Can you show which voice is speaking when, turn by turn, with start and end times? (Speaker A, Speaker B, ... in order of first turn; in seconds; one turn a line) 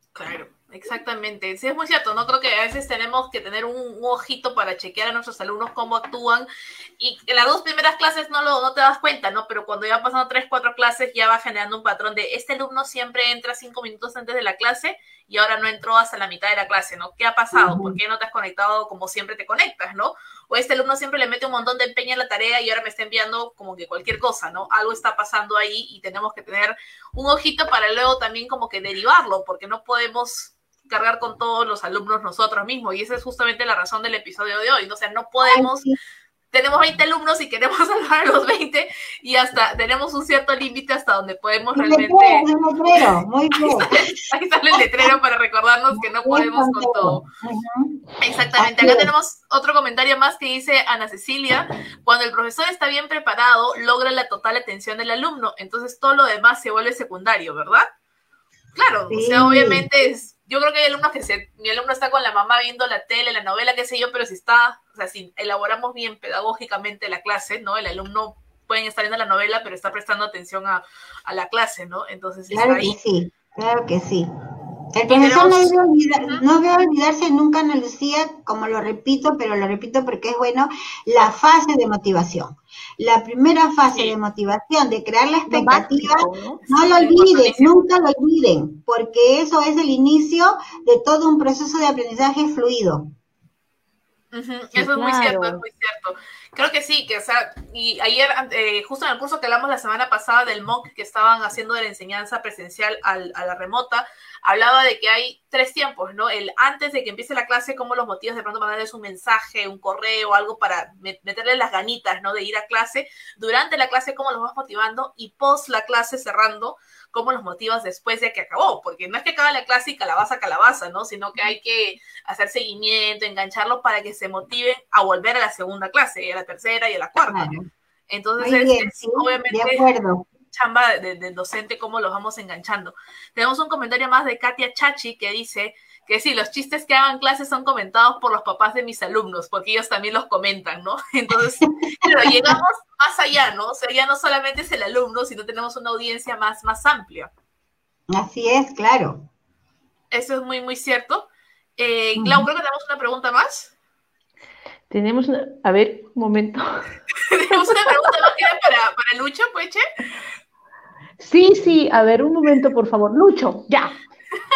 Speaker A: 0.2-6.5
Speaker A: 7.0-35.9
Speaker B: 17.5-18.0
Speaker B: 35.4-36.0
Speaker A: 36.5-42.5
Speaker B: 41.8-44.2
Speaker A: 43.6-47.2
Speaker B: 44.7-45.1
Speaker B: 45.9-48.0
Speaker A: 48.2-57.9
Speaker B: 48.6-49.1
Speaker A: 58.8-73.0
Speaker B: 59.1-59.9
Speaker B: 72.5-74.3
Speaker B: 74.9-93.1
Speaker A: 75.1-75.7
Speaker A: 83.9-84.2
Speaker C: 85.5-86.6
Speaker A: 86.7-87.8
Speaker A: 94.3-127.5
Speaker C: 94.7-95.6
Speaker B: 127.3-127.7
Speaker A: 128.1-129.8
Speaker B: 128.4-130.3
Speaker A: 130.5-147.3
Speaker B: 141.6-142.6
Speaker B: 148.1-149.3
Speaker A: 150.1-153.7
Speaker B: 152.2-152.5
Speaker C: 154.9-156.9
Speaker A: 157.3-159.8
Speaker C: 161.2-163.9